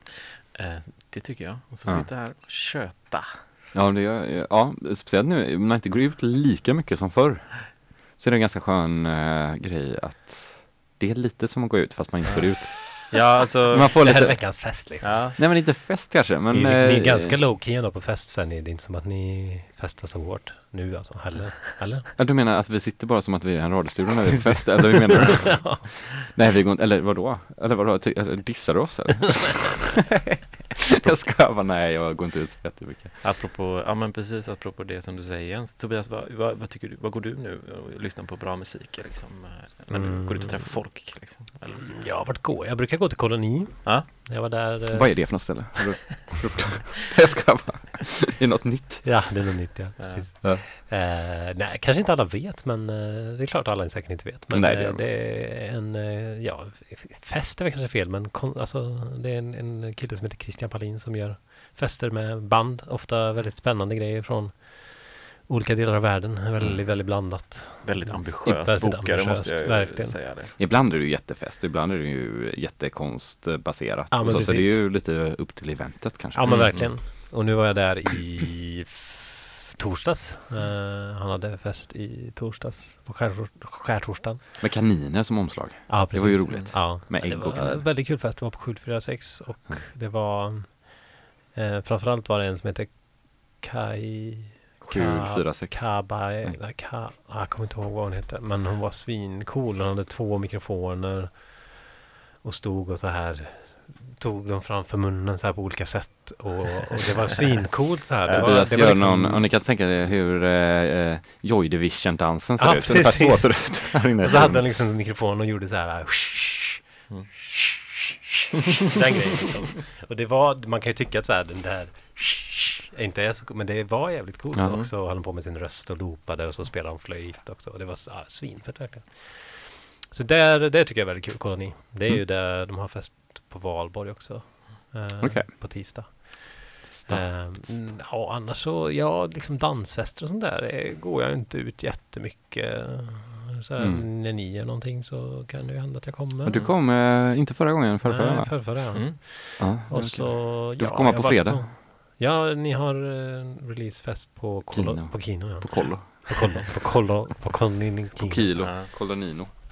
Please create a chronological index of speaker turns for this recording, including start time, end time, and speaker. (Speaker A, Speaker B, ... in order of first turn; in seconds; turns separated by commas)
Speaker A: 0.5-3.5, Speaker B: 3.7-17.4, Speaker A: 13.1-14.1, Speaker C: 13.8-15.3, Speaker A: 15.0-15.3, Speaker C: 16.5-22.1, Speaker B: 22.2-33.2, Speaker A: 24.5-25.5, Speaker C: 25.4-25.8, Speaker A: 33.2-42.0, Speaker C: 39.9-40.9, Speaker C: 41.9-45.6, Speaker B: 44.9-49.6, Speaker C: 49.0-70.2, Speaker A: 50.0-50.2, Speaker B: 54.5-55.0, Speaker A: 67.8-70.5, Speaker B: 70.6-76.9, Speaker C: 74.1-74.8, Speaker C: 76.3-84.4, Speaker A: 76.5-76.9, Speaker B: 84.6-87.8, Speaker C: 85.9-101.8, Speaker A: 86.5-86.8, Speaker B: 94.8-96.6, Speaker C: 102.4-109.5, Speaker A: 108.3-108.5, Speaker B: 108.3-114.8, Speaker C: 112.6-116.9, Speaker C: 117.5-117.8, Speaker C: 118.9-146.6, Speaker A: 119.0-119.7, Speaker B: 124.5-124.8, Speaker B: 135.2-136.1, Speaker B: 136.9-137.9, Speaker B: 143.8-144.1, Speaker B: 146.4-151.7, Speaker C: 148.0-158.9, Speaker B: 154.7-156.7, Speaker B: 158.2-159.5, Speaker A: 158.6-158.9